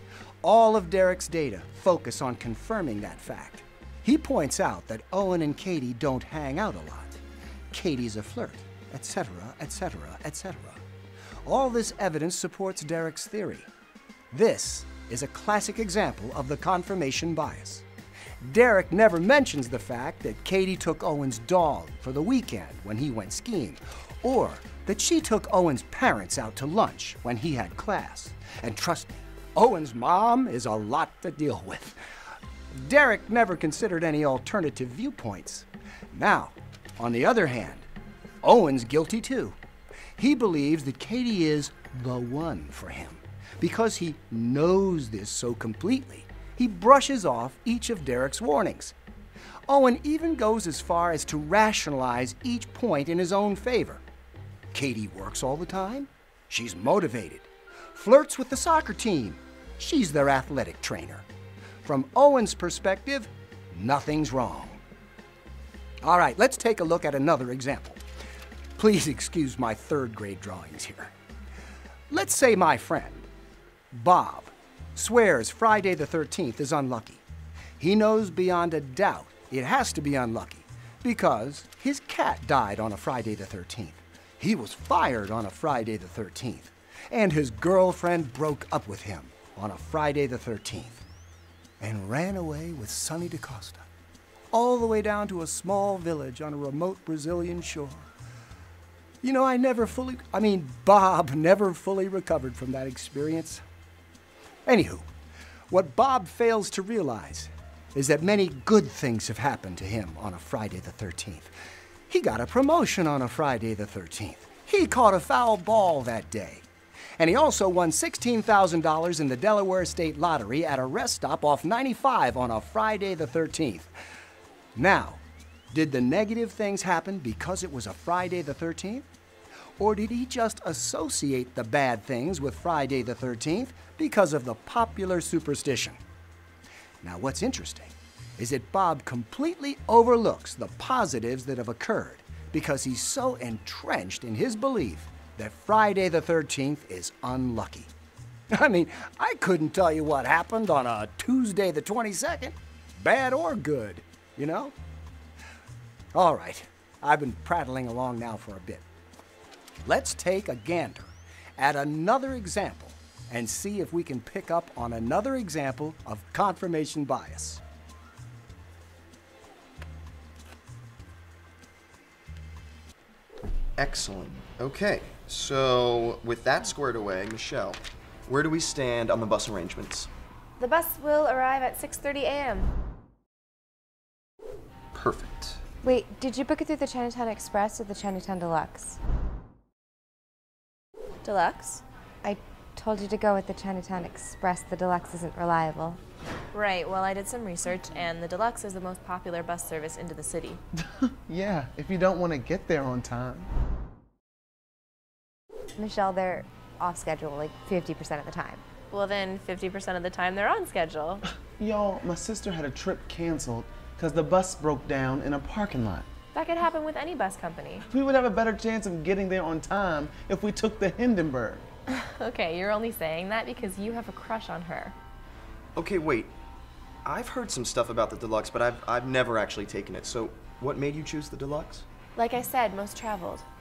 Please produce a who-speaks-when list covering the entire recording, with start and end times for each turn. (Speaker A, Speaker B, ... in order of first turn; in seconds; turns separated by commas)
Speaker A: 0.4-10.8, Speaker A: 11.4-13.7, Speaker A: 14.3-17.8, Speaker A: 18.4-32.0, Speaker A: 32.7-37.9, Speaker A: 38.4-39.6, Speaker A: 40.2-48.9, Speaker A: 49.7-54.0, Speaker A: 54.7-61.2, Speaker A: 61.8-64.8, Speaker A: 66.0-68.0, Speaker A: 68.8-71.1, Speaker A: 72.1-73.3, Speaker A: 73.9-77.2, Speaker A: 77.8-91.0, Speaker A: 91.8-93.8, Speaker A: 94.5-98.1, Speaker A: 99.2-103.6, Speaker A: 104.7-105.0, Speaker A: 105.7-111.5, Speaker A: 112.1-116.6, Speaker A: 117.2-123.9, Speaker A: 124.8-125.2, Speaker A: 125.7-129.1, Speaker A: 129.8-136.0, Speaker A: 137.0-147.9, Speaker A: 148.5-154.7, Speaker A: 156.1-158.8, Speaker A: 159.8-167.6, Speaker B: 173.8-180.1, Speaker C: 180.6-182.7, Speaker B: 184.9-185.6, Speaker D: 185.8-189.0, Speaker C: 191.2-191.8, Speaker D: 192.2-196.0, Speaker C: 196.5-200.6, Speaker E: 200.8-203.5, Speaker D: 205.8-208.6, Speaker C: 208.9-211.2, Speaker E: 211.6-216.1, Speaker C: 216.3-217.8, Speaker E: 217.9-221.7, Speaker C: 221.9-224.9, Speaker B: 225.7-226.3, Speaker B: 227.0-231.8, Speaker C: 232.2-233.4